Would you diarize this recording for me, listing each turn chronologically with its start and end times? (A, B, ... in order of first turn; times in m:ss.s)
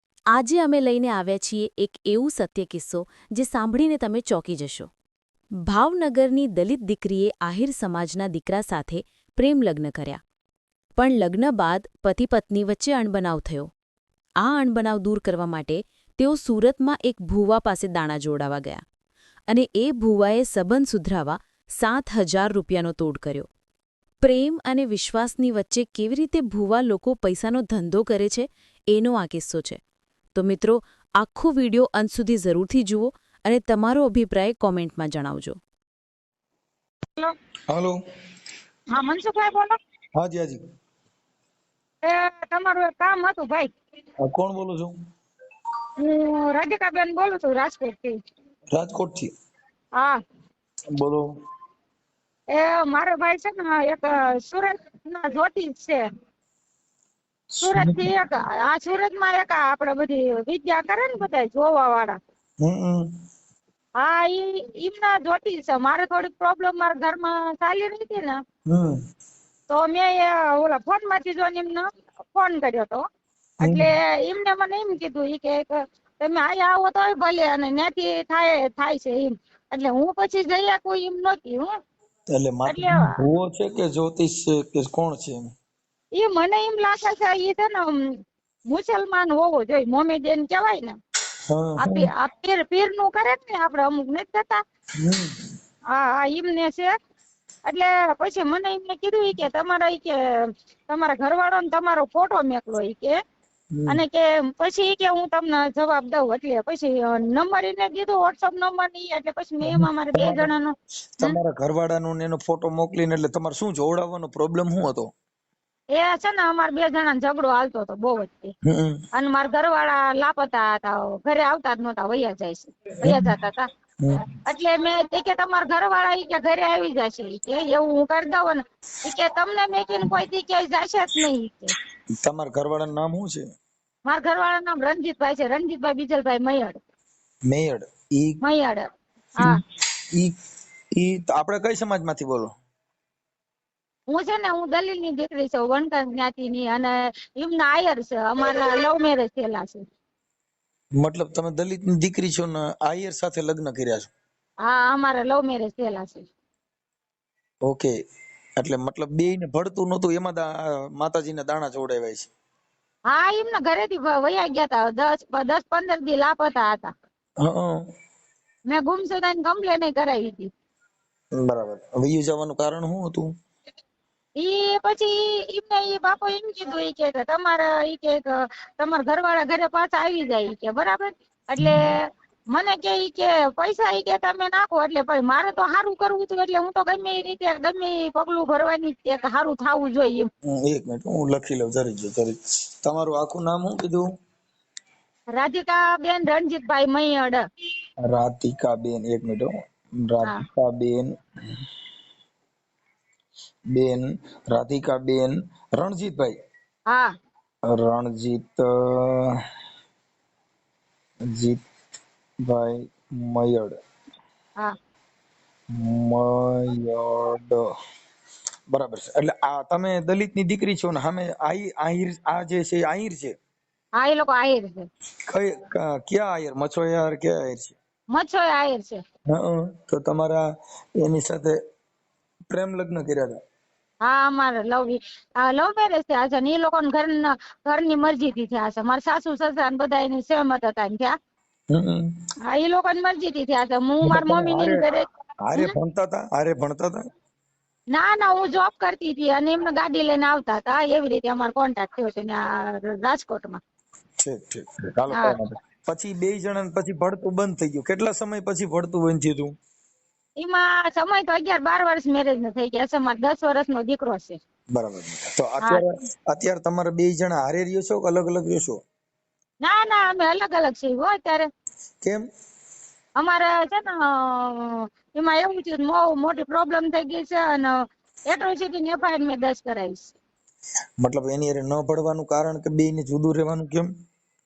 0:00.3-0:04.9 A
0:05.6-0:10.2 A
0:11.0-0:13.7 A
0:14.4-0:18.8 A
0:19.5-0:23.5 A
0:24.2-0:29.8 A
0:30.3-0:35.6 A
0:37.7-0:38.0 B
0:38.9-0:39.8 C
0:40.2-0:40.6 B
0:42.0-0:43.7 C
0:44.2-0:44.9 B
0:46.0-0:48.2 C
0:48.7-0:49.3 B
0:50.9-0:51.3 B
0:52.5-0:56.1 C
0:57.5-0:58.1 B
0:57.6-1:02.2 C
1:02.6-1:03.1 B
1:04.0-1:08.4 C
1:08.7-1:09.0 B
1:09.7-1:13.0 C
1:13.6-1:13.9 B
1:13.6-1:21.7 C
1:22.3-1:25.5 B
1:22.7-1:23.2 C
1:26.1-1:31.0 C
1:31.5-1:32.1 B
1:31.8-1:34.6 C
1:35.0-1:35.5 B
1:35.9-1:36.9 C
1:37.6-1:43.2 C
1:43.7-1:44.0 B
1:43.9-1:51.4 C
1:49.6-1:50.5 B
1:51.2-1:55.1 B
1:55.9-1:58.5 C
1:58.6-1:59.0 B
1:59.1-2:03.7 C
2:03.0-2:03.3 B
2:04.0-2:04.3 B
2:04.4-2:11.8 C
2:12.1-2:13.4 B
2:14.0-2:16.8 C
2:17.5-2:18.4 B
2:18.4-2:18.9 C
2:19.4-2:20.4 B
2:20.9-2:22.5 B
2:24.1-2:29.8 C
2:31.0-2:34.1 B
2:34.6-2:36.3 C
2:37.6-2:37.9 B
2:38.6-2:42.3 B
2:43.1-2:46.9 C
2:47.4-2:47.9 B
2:48.7-2:50.5 C
2:51.4-2:53.3 B
2:54.4-3:10.3 C
3:01.6-3:01.9 B
3:10.4-3:14.1 B
3:15.3-3:17.4 C
3:18.0-3:21.1 B
3:23.7-3:26.4 B
3:26.9-3:27.1 C
3:27.6-3:29.4 B
3:31.3-3:31.6 B
3:32.4-3:33.8 B
3:35.7-3:37.7 B
3:38.7-3:43.3 B
3:44.0-3:44.9 C
3:45.3-3:47.8 B
3:48.1-3:49.0 C
3:49.3-3:51.6 B
3:52.5-3:53.4 B
3:54.0-4:01.2 C
4:01.7-4:02.2 B
4:02.5-4:05.7 C
4:04.0-4:04.8 B
4:05.4-4:07.0 B
4:07.9-4:13.6 C
4:14.2-4:19.5 B
4:15.1-4:15.4 C
4:20.4-4:24.4 C
4:24.7-4:28.8 B
4:29.6-4:31.5 C
4:33.2-4:40.1 C
4:41.0-4:43.9 B